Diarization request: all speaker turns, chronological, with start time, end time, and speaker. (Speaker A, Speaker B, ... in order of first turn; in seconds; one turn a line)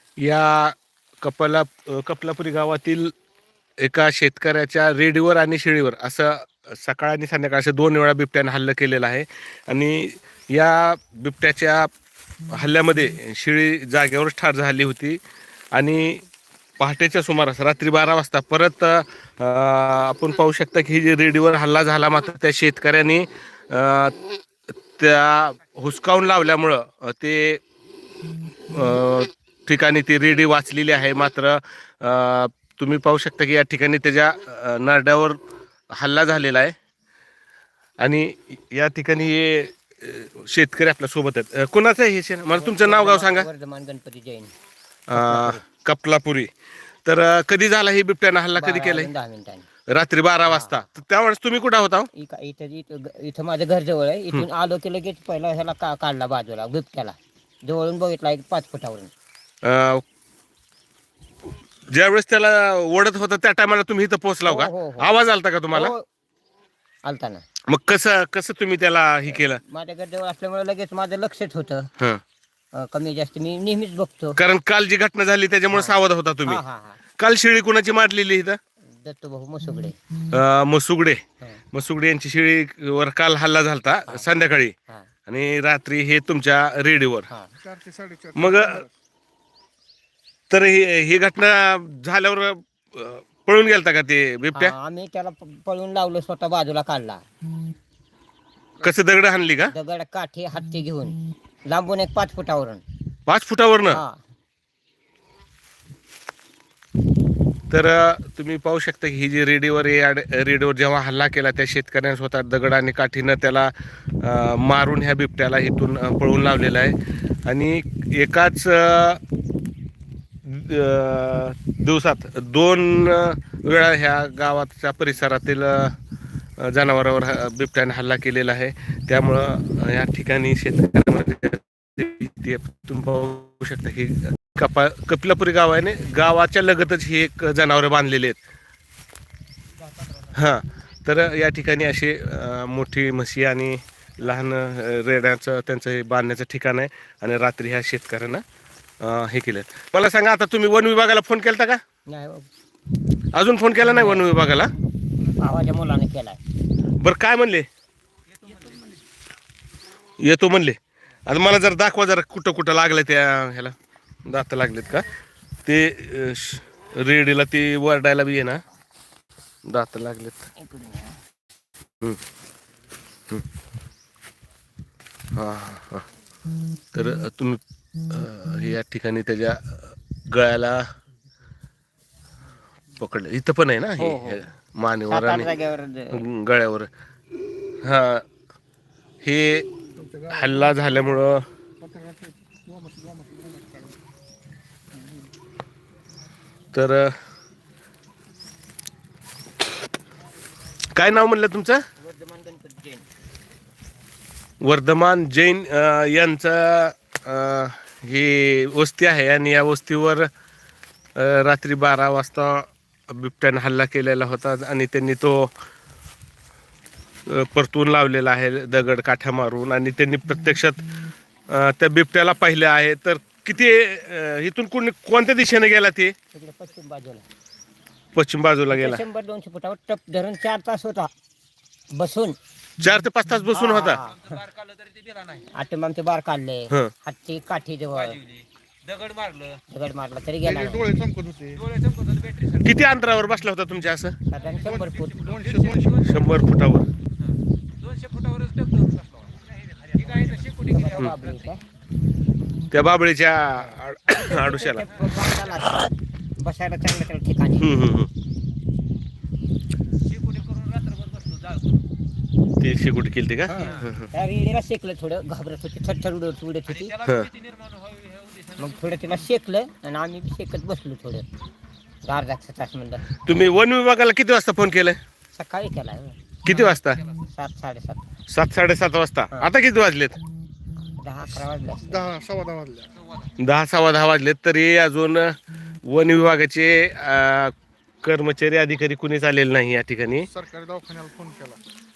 Speaker A: 0.2-3.1
Speaker A: 3.8-11.9
Speaker A: 12.5-15.2
Speaker A: 15.7-16.2
Speaker A: 16.8-24.1
Speaker A: 24.9-27.6
Speaker A: 28.7-35.4
Speaker A: 35.9-36.7
Speaker A: 38.0-43.5
Speaker B: 42.5-44.5
Speaker A: 45.1-46.5
Speaker B: 45.1-45.6
Speaker A: 47.0-49.1
Speaker B: 48.6-49.6
Speaker A: 49.9-52.1
Speaker B: 52.1-59.1
Speaker A: 59.6-60.0
Speaker A: 61.9-65.9
Speaker B: 64.5-65.1
Speaker B: 65.7-66.0
Speaker B: 67.0-67.4
Speaker A: 67.7-69.6
Speaker B: 69.3-71.9
Speaker B: 72.7-74.4
Speaker A: 74.3-76.6
Speaker B: 75.7-77.0
Speaker A: 77.2-78.6
Speaker B: 79.0-80.0
Speaker A: 80.3-84.7
Speaker A: 85.2-87.3
Speaker C: 87.6-88.9
Speaker A: 88.3-88.8
Speaker A: 90.5-94.7
Speaker B: 94.5-97.2
Speaker A: 98.8-99.7
Speaker B: 99.7-102.8
Speaker A: 103.3-104.0
Speaker B: 103.9-104.2
Speaker A: 107.7-119.2
Speaker A: 120.4-125.9
Speaker A: 126.6-138.4
Speaker A: 140.3-148.4
Speaker A: 149.0-151.8
Speaker B: 152.1-152.5
Speaker A: 153.3-154.7
Speaker B: 153.8-154.5
Speaker B: 155.4-156.4
Speaker A: 157.0-157.7
Speaker A: 160.2-165.1
Speaker A: 165.6-168.6
Speaker A: 169.7-170.5
Speaker B: 170.6-171.1
Speaker A: 175.3-176.1
Speaker A: 176.9-180.9
Speaker A: 183.0-185.5
Speaker B: 184.0-184.4
Speaker B: 185.1-186.2
Speaker A: 186.1-186.9
Speaker A: 187.8-188.2
Speaker A: 189.2-189.7
Speaker A: 190.2-191.4
Speaker C: 191.8-193.9
Speaker A: 196.7-197.2
Speaker A: 200.9-201.8
Speaker B: 202.0-203.1
Speaker A: 204.6-210.3
Speaker A: 211.2-215.5
Speaker A: 217.2-220.9
Speaker A: 221.5-226.1
Speaker B: 226.3-227.2
Speaker A: 228.1-229.0
Speaker B: 228.7-231.1
Speaker B: 231.9-232.4
Speaker A: 232.8-234.0
Speaker B: 233.5-234.4
Speaker D: 234.4-235.4
Speaker B: 235.5-238.2
Speaker D: 238.3-239.6
Speaker B: 239.7-240.8
Speaker C: 240.5-241.6
Speaker D: 241.7-242.6
Speaker A: 242.5-244.2
Speaker B: 244.3-245.3
Speaker C: 244.7-245.9
Speaker D: 245.3-245.9
Speaker A: 246.0-246.9
Speaker D: 247.8-249.2
Speaker D: 250.0-250.7
Speaker B: 250.6-251.6
Speaker A: 252.7-254.9
Speaker B: 254.1-257.8
Speaker A: 257.6-258.1
Speaker D: 260.3-261.6
Speaker A: 262.6-264.1
Speaker B: 263.5-267.0
Speaker A: 267.0-267.3
Speaker D: 267.4-268.5
Speaker B: 268.5-271.3
Speaker B: 272.0-273.1
Speaker A: 273.2-275.0
Speaker B: 275.3-276.7
Speaker A: 276.4-277.0
Speaker B: 277.2-278.1
Speaker A: 278.3-280.2
Speaker B: 280.9-282.1
Speaker C: 281.8-282.9
Speaker A: 283.4-290.3
Speaker C: 290.3-291.6